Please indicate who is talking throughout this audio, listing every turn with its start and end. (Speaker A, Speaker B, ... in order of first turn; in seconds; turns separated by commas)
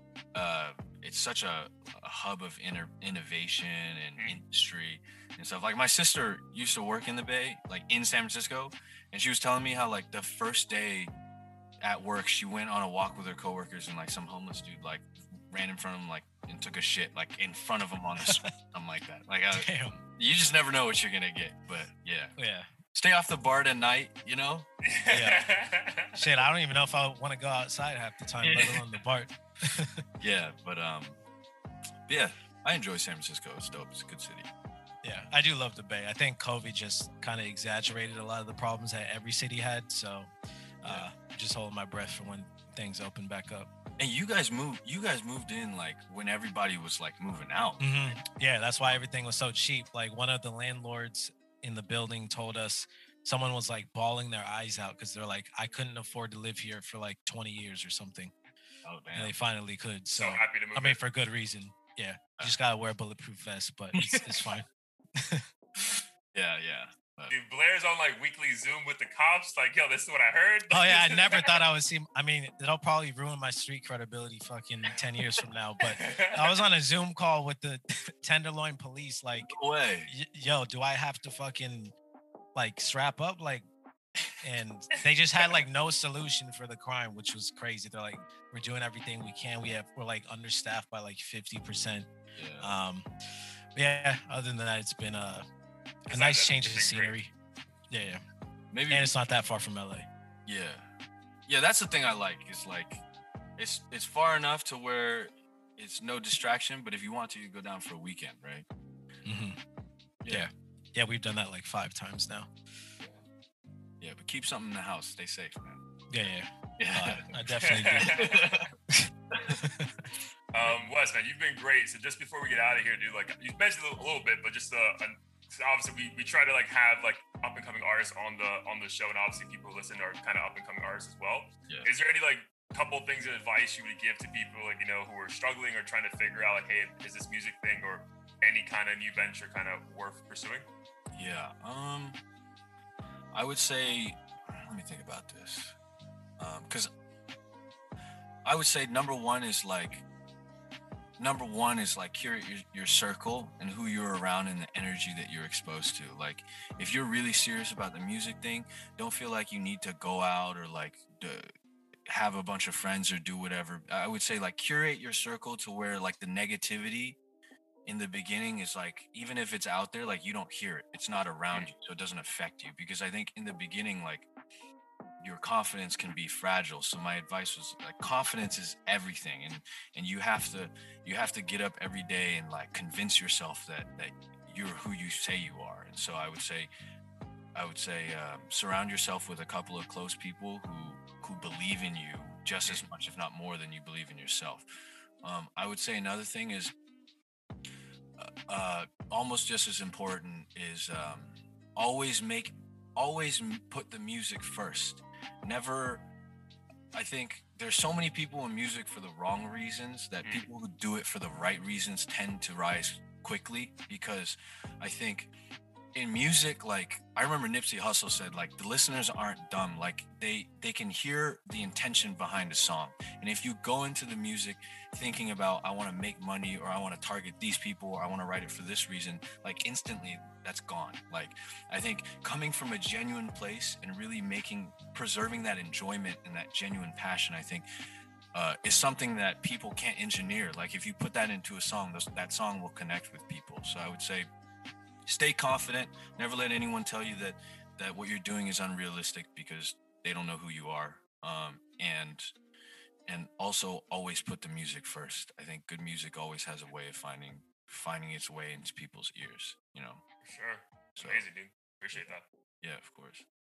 Speaker A: 0.3-11.1, Speaker A: 11.8-22.4, Speaker B: 18.2-18.5, Speaker B: 19.5-20.0, Speaker B: 22.4-22.7, Speaker A: 22.9-24.7, Speaker C: 24.8-26.5, Speaker B: 25.1-25.4, Speaker B: 26.2-30.0, Speaker A: 28.4-28.8, Speaker A: 30.2-31.2, Speaker A: 32.1-34.5, Speaker B: 35.0-40.3, Speaker B: 40.8-43.7, Speaker A: 40.8-41.1, Speaker A: 44.0-48.2, Speaker B: 47.8-58.3, Speaker A: 58.8-59.3, Speaker B: 59.1-64.7, Speaker C: 60.1-61.0, Speaker A: 64.0-64.6, Speaker B: 65.2-65.5, Speaker A: 65.8-67.3, Speaker C: 67.3-71.6, Speaker B: 70.7-79.5, Speaker C: 75.9-76.6, Speaker A: 79.4-80.1, Speaker B: 80.1-81.9, Speaker B: 82.5-83.6, Speaker B: 84.4-92.1, Speaker A: 92.4-92.7, Speaker B: 92.6-93.1, Speaker B: 93.8-95.5, Speaker C: 96.1-97.2, Speaker B: 96.1-97.3, Speaker B: 97.9-98.2, Speaker A: 98.7-99.1, Speaker B: 98.9-100.1, Speaker A: 100.5-100.9, Speaker A: 101.5-103.0, Speaker A: 103.6-108.7, Speaker B: 109.2-109.6, Speaker A: 110.2-110.5, Speaker B: 110.3-112.5, Speaker A: 114.0-115.8, Speaker B: 116.1-118.3, Speaker A: 116.8-117.4, Speaker C: 117.6-118.6, Speaker A: 118.0-118.7, Speaker B: 118.9-120.1, Speaker A: 119.3-119.6, Speaker C: 120.5-140.7, Speaker A: 141.1-142.2, Speaker A: 143.3-145.8, Speaker A: 146.4-146.9, Speaker A: 148.4-150.0, Speaker A: 151.2-161.5, Speaker A: 162.1-167.2, Speaker A: 167.8-174.3, Speaker A: 175.2-186.7, Speaker A: 187.5-194.7, Speaker A: 195.2-196.7, Speaker A: 198.2-206.1, Speaker A: 206.9-215.3, Speaker A: 215.9-237.7, Speaker A: 238.3-244.3, Speaker A: 245.1-252.3, Speaker A: 253.1-260.0, Speaker C: 260.2-262.2, Speaker A: 261.0-261.2, Speaker A: 261.9-263.3